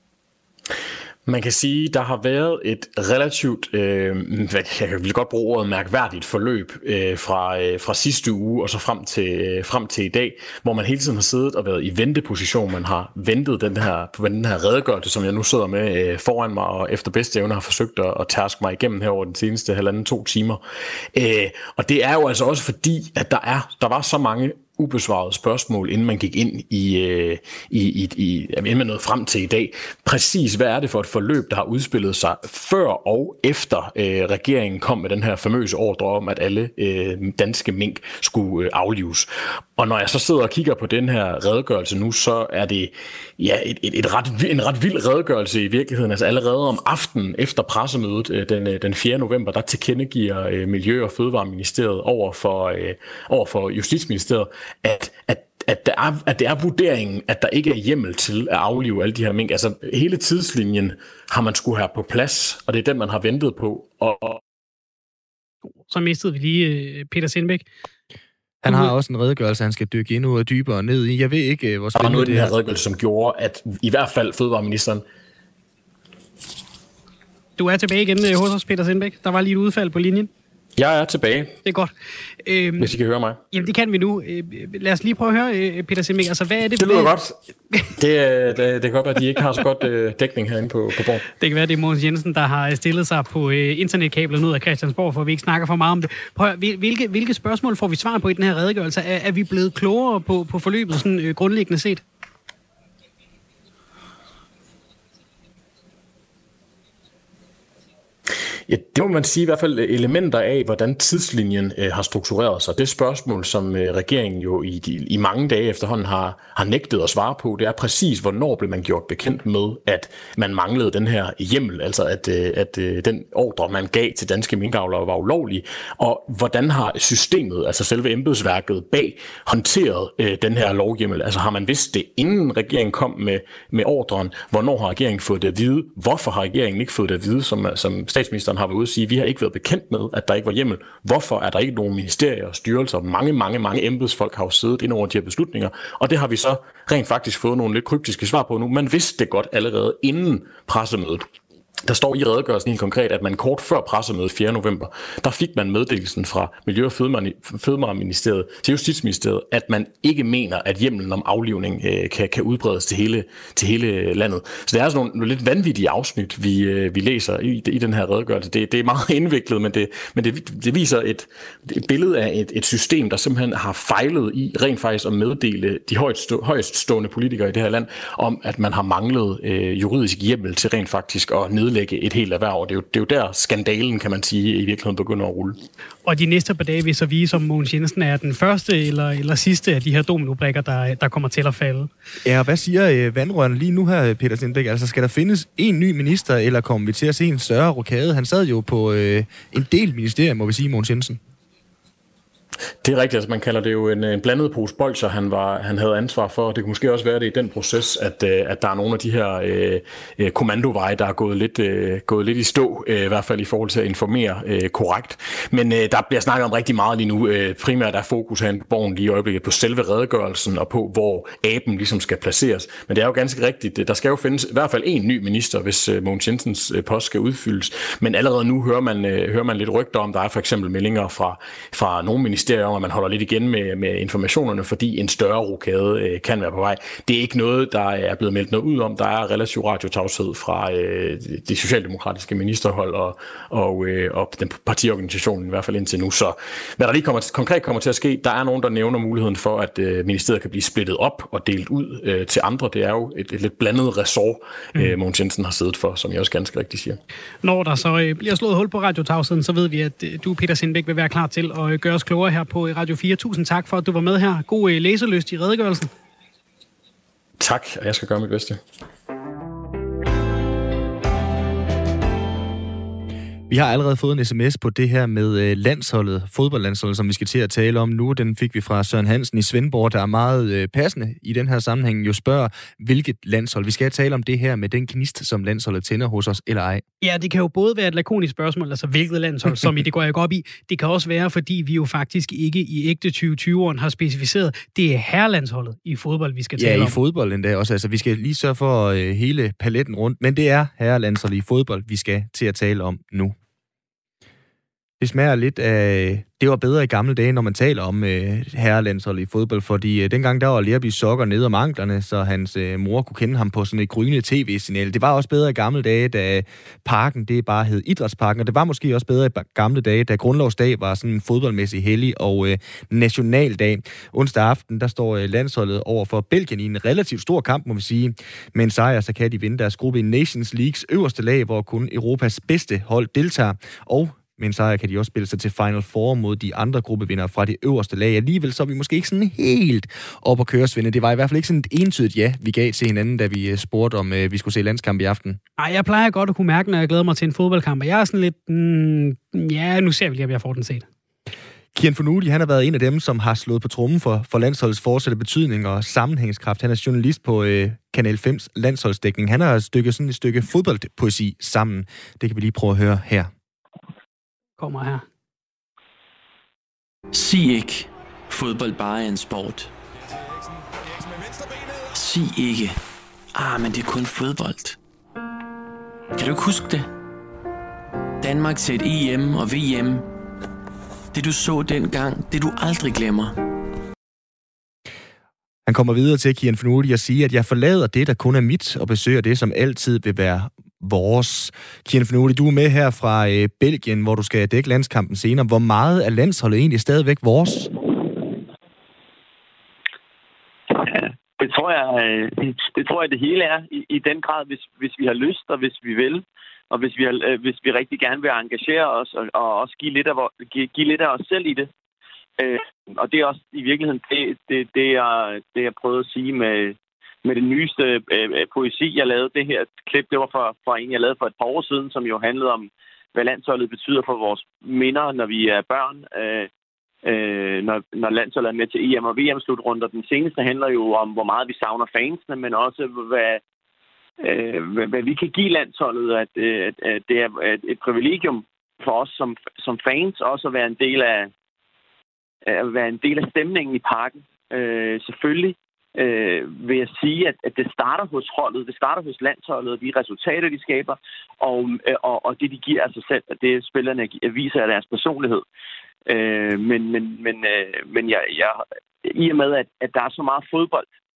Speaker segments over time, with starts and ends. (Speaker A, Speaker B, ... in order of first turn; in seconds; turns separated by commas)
Speaker A: 1.3-20.6, Speaker A: 21.1-64.4, Speaker B: 65.9-67.7, Speaker C: 68.6-72.5, Speaker A: 72.0-75.0, Speaker B: 77.6-80.3, Speaker A: 80.8-81.6, Speaker B: 81.7-81.9, Speaker B: 82.4-82.9, Speaker A: 82.8-83.4, Speaker B: 83.5-87.1, Speaker A: 86.8-87.4, Speaker A: 87.9-91.3, Speaker B: 91.4-102.0, Speaker A: 108.7-151.3, Speaker A: 151.8-185.6, Speaker B: 186.1-191.9, Speaker C: 192.2-201.2, Speaker A: 202.8-257.0, Speaker B: 257.4-265.9, Speaker A: 267.4-268.6, Speaker C: 273.5-286.8, Speaker B: 287.0-297.0, Speaker C: 296.6-303.4, Speaker C: 305.0-345.4, Speaker B: 345.6-350.9, Speaker C: 351.7-363.3, Speaker B: 364.6-365.1, Speaker D: 367.1-369.7, Speaker D: 371.9-372.8, Speaker D: 373.3-374.8, Speaker D: 376.1-376.9, Speaker D: 378.2-380.1, Speaker D: 381.1-383.4, Speaker C: 385.7-397.8, Speaker E: 400.7-411.7, Speaker E: 412.4-426.5, Speaker E: 427.1-433.4, Speaker E: 434.2-441.3, Speaker E: 442.5-455.4, Speaker E: 456.1-460.9